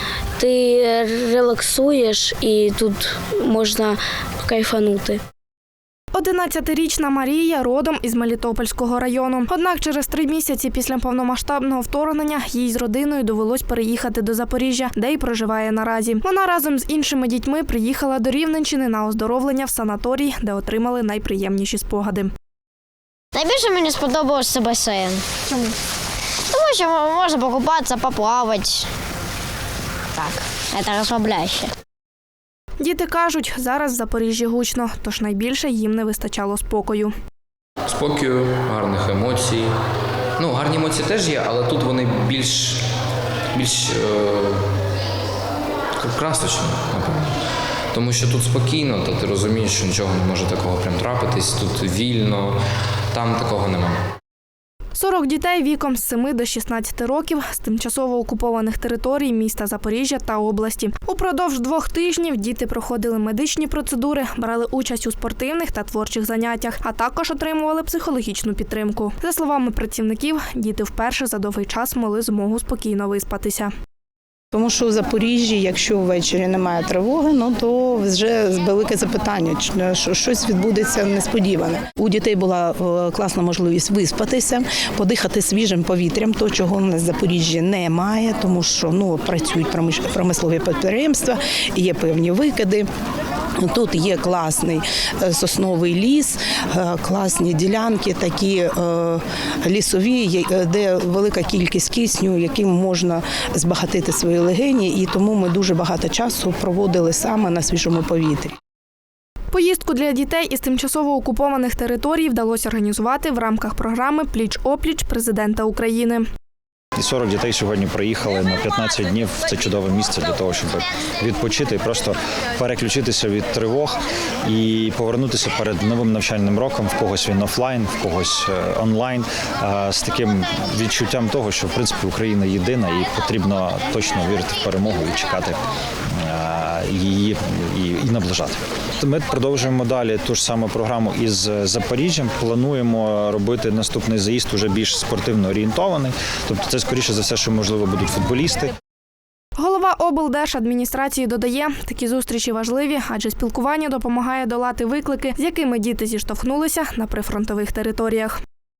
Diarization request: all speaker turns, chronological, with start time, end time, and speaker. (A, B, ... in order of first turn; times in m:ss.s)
0:00.4-0:05.2 A
0:06.1-0:22.3 B
0:23.3-0:25.7 C
0:26.5-0:28.9 C
0:30.1-0:31.7 C
0:32.8-0:37.1 B
0:37.8-0:39.7 D
0:40.4-0:42.8 D
0:43.5-0:44.6 D
0:46.0-0:47.3 D
0:47.9-0:52.6 D
0:53.1-0:54.0 D
0:54.9-1:13.7 B
1:14.5-1:32.9 E
1:33.6-1:48.5 E
1:49.5-1:56.2 B
1:57.0-2:15.6 F
2:16.2-2:28.7 F
2:29.6-2:38.3 B